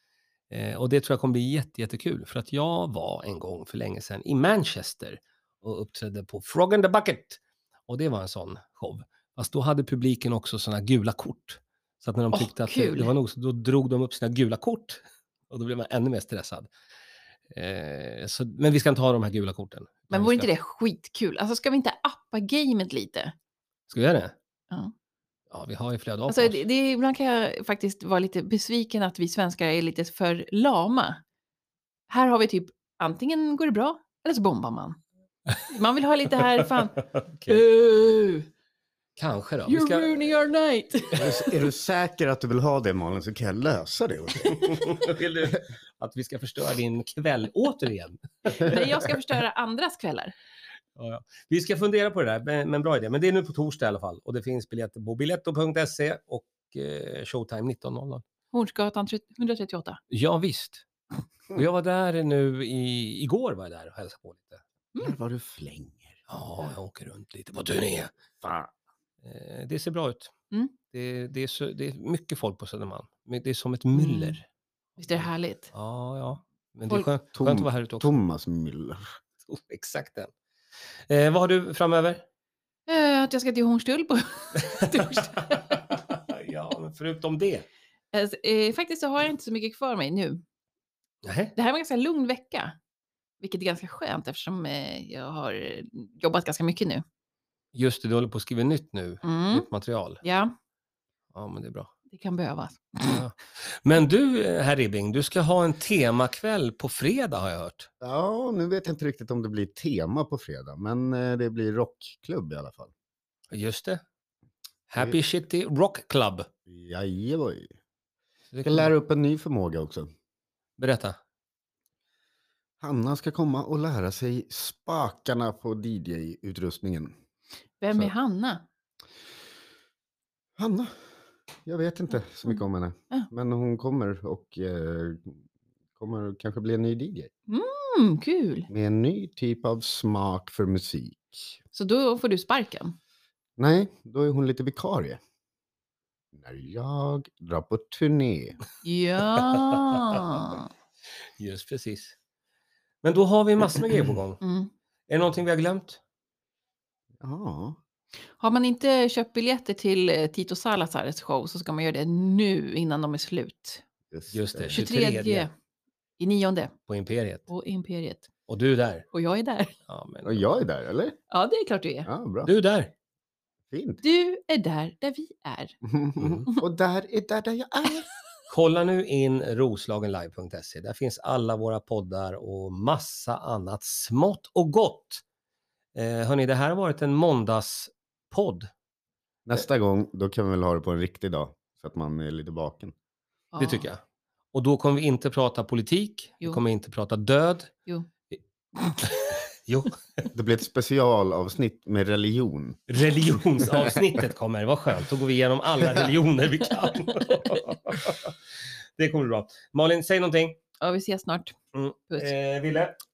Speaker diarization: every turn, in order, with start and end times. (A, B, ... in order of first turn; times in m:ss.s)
0:00.5-0:16.7 A
0:12.3-0:13.1 B
0:17.5-0:20.5 A
0:20.1-0:23.3 B
0:23.9-0:24.3 A
0:25.5-0:26.6 A
0:26.3-0:31.2 B
0:32.1-0:35.0 B
0:35.7-0:38.5 B
0:37.0-0:37.6 A
0:39.2-0:40.3 A
0:39.7-0:41.5 B
0:41.2-0:45.0 C
0:44.4-0:49.2 A
0:48.6-0:50.3 B
0:51.0-0:58.2 A
0:58.5-1:00.0 B
1:00.1-1:00.8 A
1:01.5-1:04.6 A
1:05.0-1:06.2 C
1:06.3-1:08.1 A
1:08.4-1:08.7 C
1:09.2-1:10.3 A
1:10.9-1:14.4 A
1:13.9-1:14.4 B
1:15.0-1:15.7 B
1:15.7-1:18.1 A
1:17.3-1:19.0 C
1:19.5-1:20.3 A
1:21.1-1:22.2 A
1:22.9-1:25.8 B
1:24.6-1:27.6 A
1:28.1-1:30.4 B
1:31.2-1:31.5 A
1:31.5-1:32.8 B
1:33.4-1:37.0 B
1:37.7-1:40.2 A
1:39.2-1:39.7 B
1:40.2-1:40.5 B
1:41.3-1:41.9 A
1:42.1-1:43.2 B
1:43.0-1:47.9 A
1:48.0-1:52.9 C
1:53.5-1:54.0 A
1:54.9-1:56.5 A
1:56.7-1:57.7 C
1:58.5-1:58.9 A
1:58.6-2:00.1 C
2:00.8-2:01.2 A
2:02.8-2:07.1 C
2:07.8-2:08.6 B
2:10.6-2:11.0 C
2:11.6-2:15.4 C
2:16.0-2:17.3 C
2:17.5-2:18.7 B
2:18.7-2:21.6 C
2:21.7-2:23.0 B
2:23.6-2:25.2 C
2:26.3-2:28.6 C
2:28.8-2:30.7 B
2:29.8-2:30.2 A
2:31.4-2:32.1 A
2:33.0-2:34.4 A
2:34.4-2:34.7 B
2:35.1-2:36.0 A
2:37.2-2:37.8 C
2:38.4-2:43.8 B
2:44.1-2:44.8 C
2:44.3-2:45.5 A
2:44.7-2:45.5 B
2:46.2-2:46.7 B
2:46.9-2:47.5 A
2:47.5-2:48.3 B
2:48.5-2:49.1 A
2:49.1-2:49.7 B
2:49.8-2:50.5 A
2:50.2-2:51.2 C
2:51.3-2:52.1 B
2:52.0-2:52.5 C
2:52.4-2:52.9 A
2:53.7-2:54.0 C
2:54.0-2:55.7 B
2:55.8-2:58.1 C
2:56.2-2:56.4 A
2:58.5-3:05.2 A
3:05.9-3:08.7 A
3:09.4-3:12.9 C
3:13.5-3:13.9 B
3:13.6-3:14.0 A
3:14.5-3:17.7 A
3:19.0-3:20.0 A
3:20.3-3:22.8 C
3:22.9-3:28.4 A
3:23.6-3:24.0 C
3:25.8-3:26.1 C
3:26.8-3:27.4 B
3:29.0-3:30.6 A
3:30.8-3:31.6 B
3:31.7-3:32.9 A